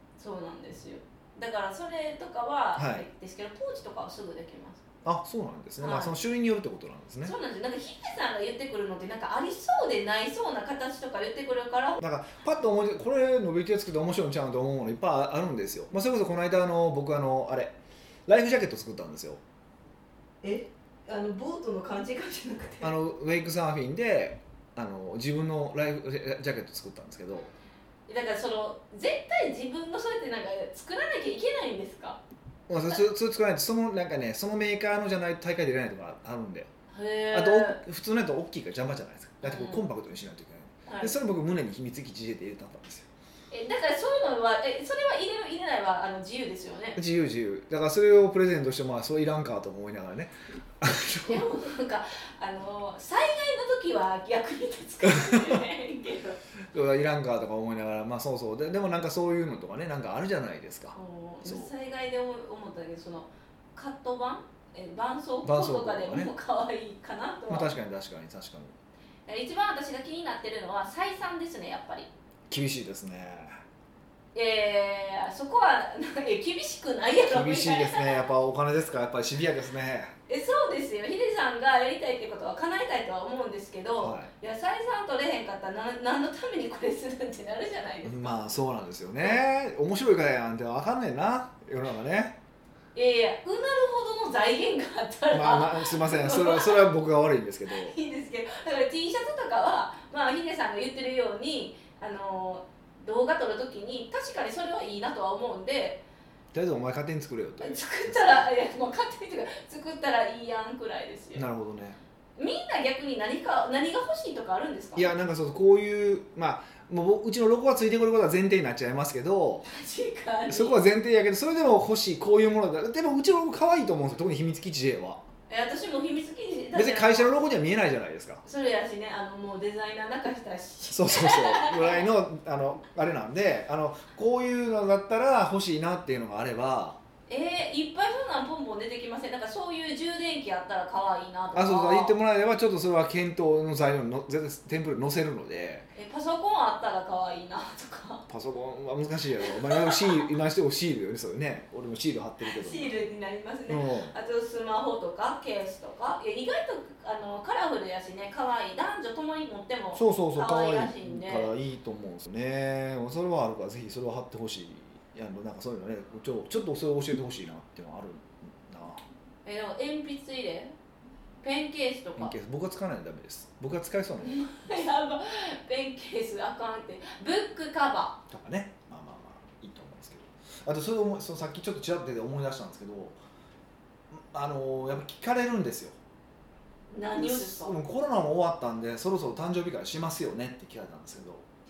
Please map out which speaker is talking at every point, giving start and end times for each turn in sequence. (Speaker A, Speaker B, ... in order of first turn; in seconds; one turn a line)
Speaker A: 0.2-4.8
Speaker B: 2.8-3.0
Speaker B: 5.0-7.3
Speaker A: 5.8-6.2
Speaker A: 7.2-12.0
Speaker B: 12.0-17.8
Speaker B: 18.3-19.4
Speaker A: 20.4-22.9
Speaker B: 22.8-27.5
Speaker A: 28.1-32.2
Speaker B: 32.7-36.7
Speaker A: 36.9-37.8
Speaker B: 37.3-43.1
Speaker A: 39.4-39.9
Speaker A: 40.9-41.1
Speaker A: 43.5-47.0
Speaker B: 47.0-51.5
Speaker A: 51.3-56.4
Speaker B: 55.0-55.6
Speaker B: 56.7-61.7
Speaker A: 61.0-67.7
Speaker B: 65.4-66.3
Speaker B: 67.5-68.8
Speaker A: 69.3-72.1
Speaker B: 72.5-73.6
Speaker A: 74.3-78.2
Speaker B: 77.3-80.1
Speaker A: 80.3-88.3
Speaker B: 84.0-84.3
Speaker B: 88.0-92.4
Speaker A: 93.0-96.9
Speaker B: 95.3-98.0
Speaker A: 97.7-106.0
Speaker B: 106.5-108.5
Speaker A: 107.6-111.4
Speaker B: 111.3-112.0
Speaker A: 112.4-115.1
Speaker B: 115.0-119.7
Speaker A: 119.7-120.8
Speaker B: 120.5-125.2
Speaker A: 125.5-127.4
Speaker B: 126.8-128.4
Speaker A: 128.4-132.1
Speaker B: 130.9-137.0
Speaker A: 137.3-142.2
Speaker B: 141.6-145.9
Speaker A: 145.9-148.2
Speaker B: 148.3-152.9
Speaker A: 149.4-150.2
Speaker A: 152.4-161.5
Speaker B: 153.7-154.2
Speaker B: 159.9-169.0
Speaker A: 169.4-170.7
Speaker A: 171.4-172.3
Speaker B: 172.2-174.4
Speaker A: 174.2-178.2
Speaker B: 178.3-183.2
Speaker B: 184.1-186.0
Speaker A: 186.9-187.8
Speaker B: 187.2-191.4